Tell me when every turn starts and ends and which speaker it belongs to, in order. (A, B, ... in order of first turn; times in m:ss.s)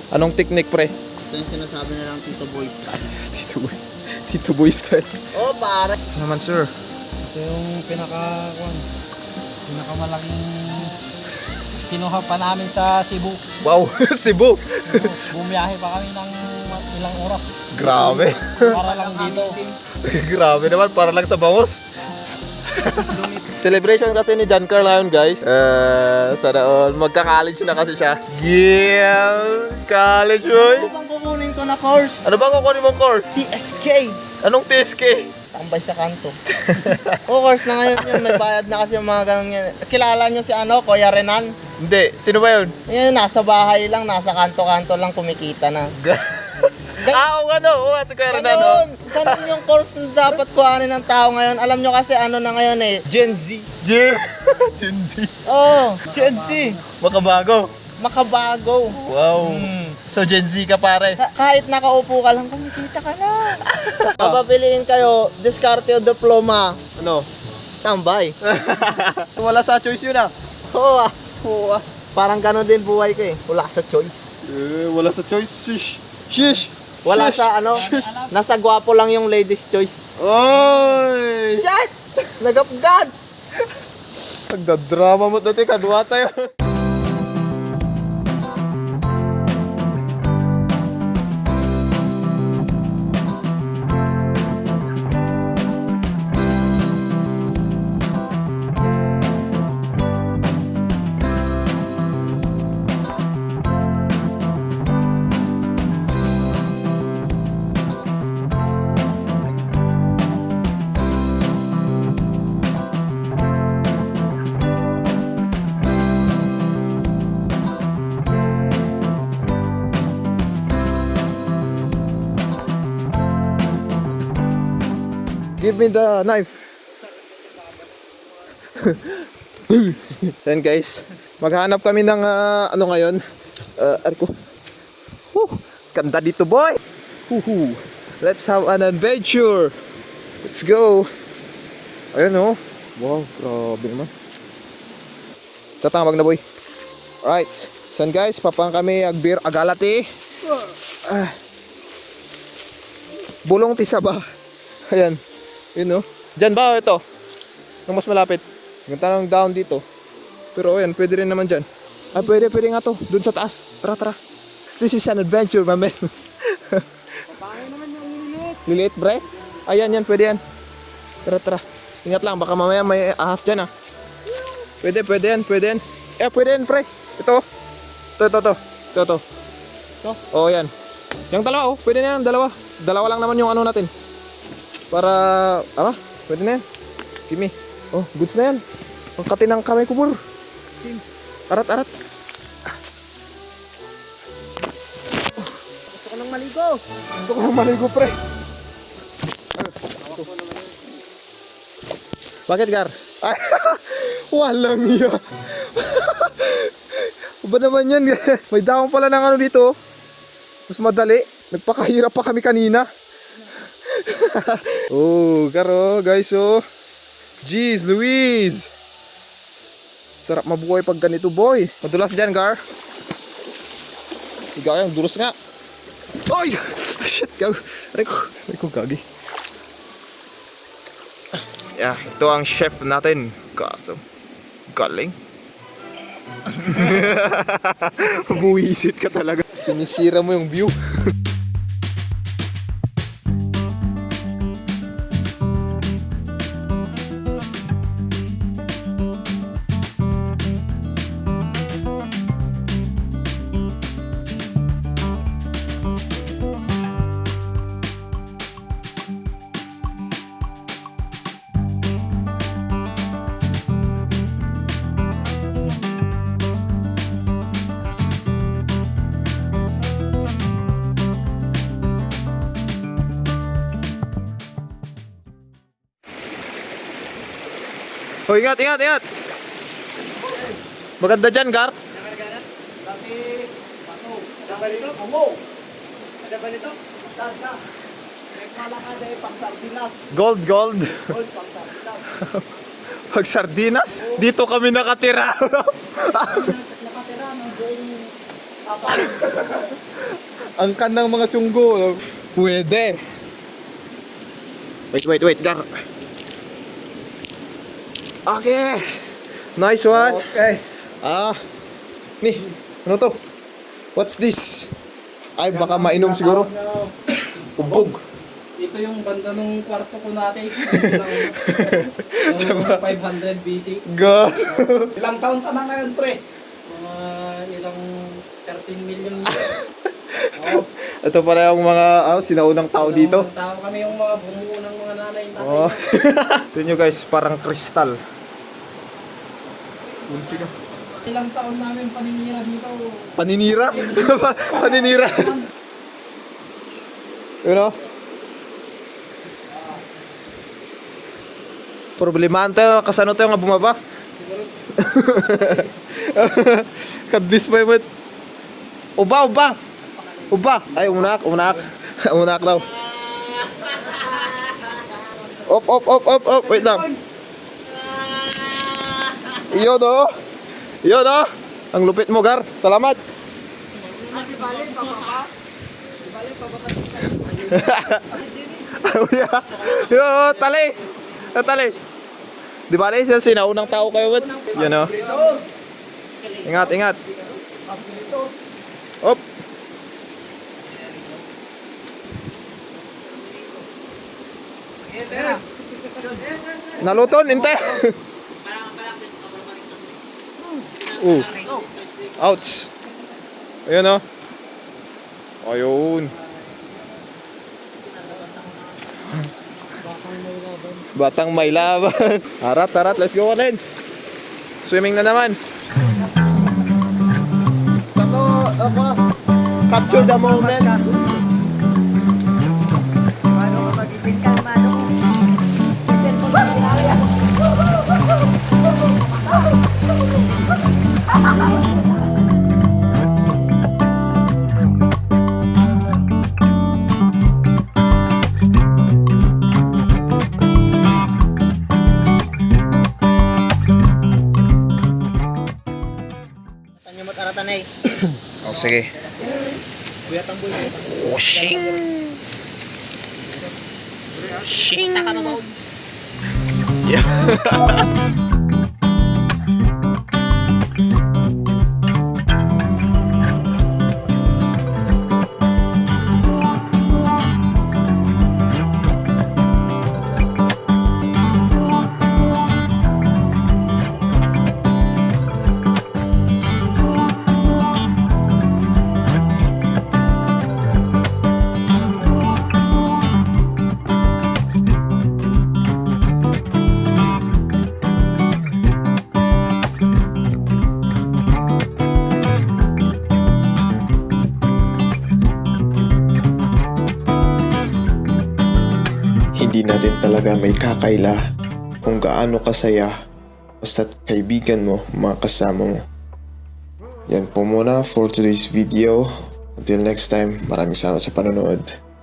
0:00.1-0:00.9 A
0:01.3-0:03.2 B
0:03.1-0:05.1 A
0:05.3-0:06.0 B
0:06.1-0:06.7 A
0:07.3-0:08.8 C
0:09.6-0:10.9 C
0:11.8-0:13.4 C
0:13.6-0:15.1 A
0:14.9-0:19.7 C
0:17.7-0:18.8 A
0:18.9-0:19.4 B
0:20.0-0:21.8 A
0:22.8-0:30.9 A
0:30.5-0:32.3 B
0:32.2-0:33.4 A
0:33.4-0:34.3 B
0:34.3-0:35.4 A
0:35.4-0:36.4 B
0:36.5-0:37.2 A
0:37.2-0:41.7 B
0:37.9-0:38.4 A
0:41.7-0:42.8 A
0:42.8-0:45.9 B
0:46.0-0:49.5 A
0:47.0-0:47.3 B
0:48.3-0:53.8 B
0:53.8-0:55.5 A
0:55.4-0:56.8 B
0:56.0-0:57.7 A
0:56.1-0:56.7 C
0:58.0-1:00.1 B
0:59.0-1:01.2 A
1:01.2-1:06.9 B
1:03.7-1:04.4 A
1:06.9-1:07.3 A
1:07.8-1:08.4 B
1:08.4-1:10.3 A
1:10.7-1:11.3 B
1:11.3-1:12.0 A
1:12.1-1:14.3 B
1:14.4-1:18.0 A
1:17.0-1:20.0 B
1:17.6-1:18.3 C
1:20.2-1:21.6 A
1:21.5-1:23.1 B
1:24.2-1:26.5 A
2:05.6-2:06.6 A
2:08.7-2:13.2 A
2:13.8-2:14.3 A
2:15.3-2:19.7 A
2:20.4-2:21.1 A
2:22.1-2:24.1 A
2:25.8-2:26.4 A
2:27.2-2:31.3 A
2:33.4-2:34.2 A
2:34.9-2:35.2 A
2:35.7-2:37.0 A
2:37.9-2:39.8 A
2:40.5-2:44.2 A
2:44.8-2:46.8 A
2:47.9-2:48.4 C
2:48.6-2:50.4 A
2:51.2-2:53.7 A
2:54.8-2:57.4 A
2:58.2-2:59.2 A
3:00.2-3:00.7 A
3:01.3-3:03.9 A
3:04.9-3:06.6 A
3:07.3-3:08.6 A
3:09.2-3:10.2 A
3:11.5-3:11.9 A
3:16.0-3:16.8 C
3:17.2-3:18.2 A
3:19.6-3:20.2 A
3:20.4-3:20.7 C
3:22.5-3:29.7 A
3:30.7-3:32.9 A
3:33.9-3:36.6 A
3:37.4-3:38.7 A
3:40.2-3:42.6 A
3:44.6-3:45.3 A
3:46.2-3:49.0 A
3:51.7-3:54.0 A
3:54.7-3:55.2 A
3:56.5-4:00.8 A
4:38.3-4:39.0 A
4:41.0-4:41.7 A
4:43.0-4:43.4 C
4:44.2-4:45.3 C
4:47.2-4:47.5 C
4:48.4-4:50.0 C
4:50.1-4:51.2 A
4:51.2-4:51.8 C
4:52.1-4:52.4 A
4:53.1-4:56.5 A
4:56.0-4:58.1 C
4:58.8-4:59.1 C
4:58.8-5:00.0 A
5:00.6-5:03.0 A
5:04.9-5:05.7 A
5:08.2-5:08.9 A
5:09.6-5:11.4 A
5:10.0-5:10.5 C
5:12.2-5:13.2 A
5:13.9-5:14.7 A
5:15.4-5:16.5 A
5:16.6-5:16.9 C
5:17.6-5:18.0 A
5:18.6-5:23.8 C
5:20.6-5:22.9 A
5:23.9-5:24.9 A
5:24.9-5:27.8 C
5:28.4-5:29.4 C
5:29.3-5:33.3 A
5:30.4-5:30.6 C
5:32.7-5:35.8 C
5:35.4-5:38.0 A
5:40.0-5:40.5 A
5:41.0-5:43.1 C
5:43.2-5:45.4 A
5:43.7-5:45.4 C
5:47.4-5:47.8 A
5:52.0-5:53.8 A
5:54.7-5:57.8 A
5:59.0-5:59.6 A
6:00.3-6:02.7 A
6:02.8-6:04.6 B
6:05.4-6:06.9 A
6:07.8-6:09.4 B
6:09.5-6:10.1 A
6:10.8-6:13.0 A
6:13.9-6:15.2 C
6:17.2-6:18.1 A
6:18.7-6:21.8 A
6:22.7-6:25.0 A
6:23.6-6:25.4 C
6:26.4-6:27.0 A
6:27.7-6:28.3 C
6:35.0-6:35.4 C
6:36.8-6:38.0 A
6:38.5-6:39.9 B
6:40.9-6:41.4 A
6:41.0-6:42.1 B
6:42.1-6:42.7 A
6:43.7-6:44.0 A
6:45.4-6:46.1 A
6:49.8-6:50.8 C
6:50.9-6:53.6 A
6:54.6-6:55.4 A
6:57.9-6:59.0 A
6:59.7-7:00.9 A
7:03.5-7:04.7 C
7:05.9-7:07.0 C
7:26.8-7:27.9 B
7:28.4-7:28.8 B
7:30.1-7:31.8 B
7:34.3-7:35.5 B
7:34.5-7:34.9 A
7:36.8-7:37.8 A
8:19.6-8:21.0 A
8:21.8-8:22.9 A
8:23.7-8:25.7 A
8:27.2-8:29.0 A
8:29.6-8:31.6 A